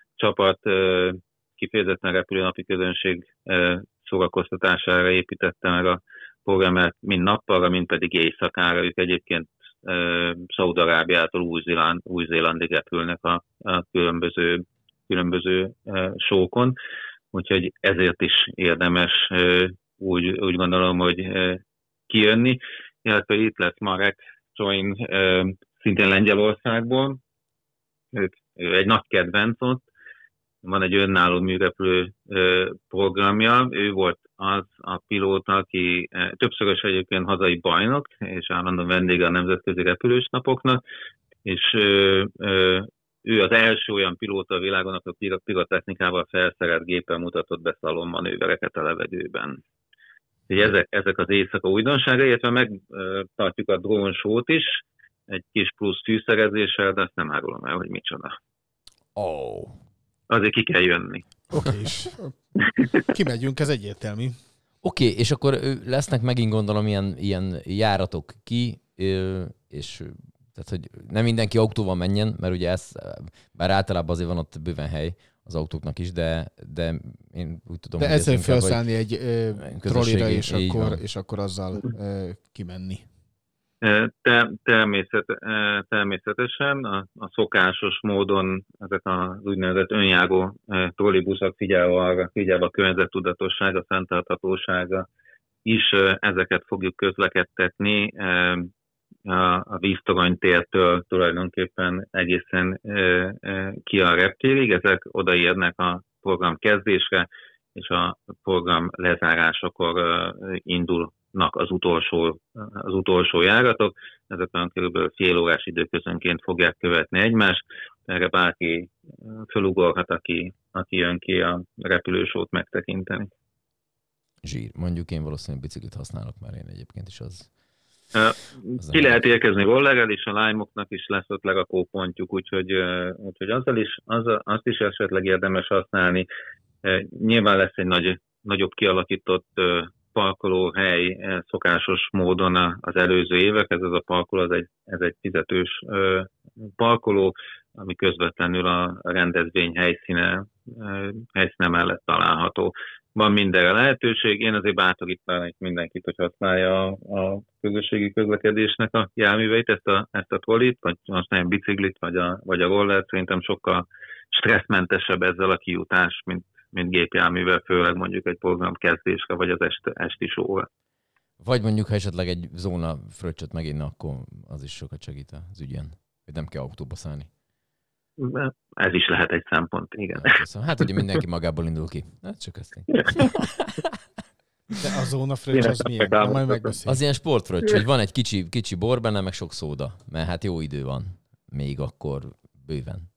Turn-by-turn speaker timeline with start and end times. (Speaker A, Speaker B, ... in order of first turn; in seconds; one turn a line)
Speaker A: 0.2-16.8
Speaker A: 17.3-27.2
Speaker A: 28.1-29.8
Speaker A: 30.6-40.8
Speaker A: 41.4-49.6
Speaker A: 50.5-58.4
Speaker B: 59.1-59.8
Speaker A: 60.3-61.2
Speaker C: 61.5-62.4
Speaker C: 62.9-64.4
Speaker B: 64.8-78.8
Speaker C: 78.0-83.0
Speaker B: 79.6-81.0
Speaker A: 83.8-95.0
Speaker A: 95.6-98.7
Speaker A: 99.2-123.3
Speaker B: 124.4-127.5
Speaker A: 128.1-136.3
Speaker B: 128.8-129.2
Speaker A: 136.8-170.7
Speaker B: 171.4-177.3
Speaker A: 178.2-180.4
Speaker B: 180.2-183.8
Speaker C: 184.8-187.0
Speaker A: 185.5-186.7
Speaker B: 186.8-193.1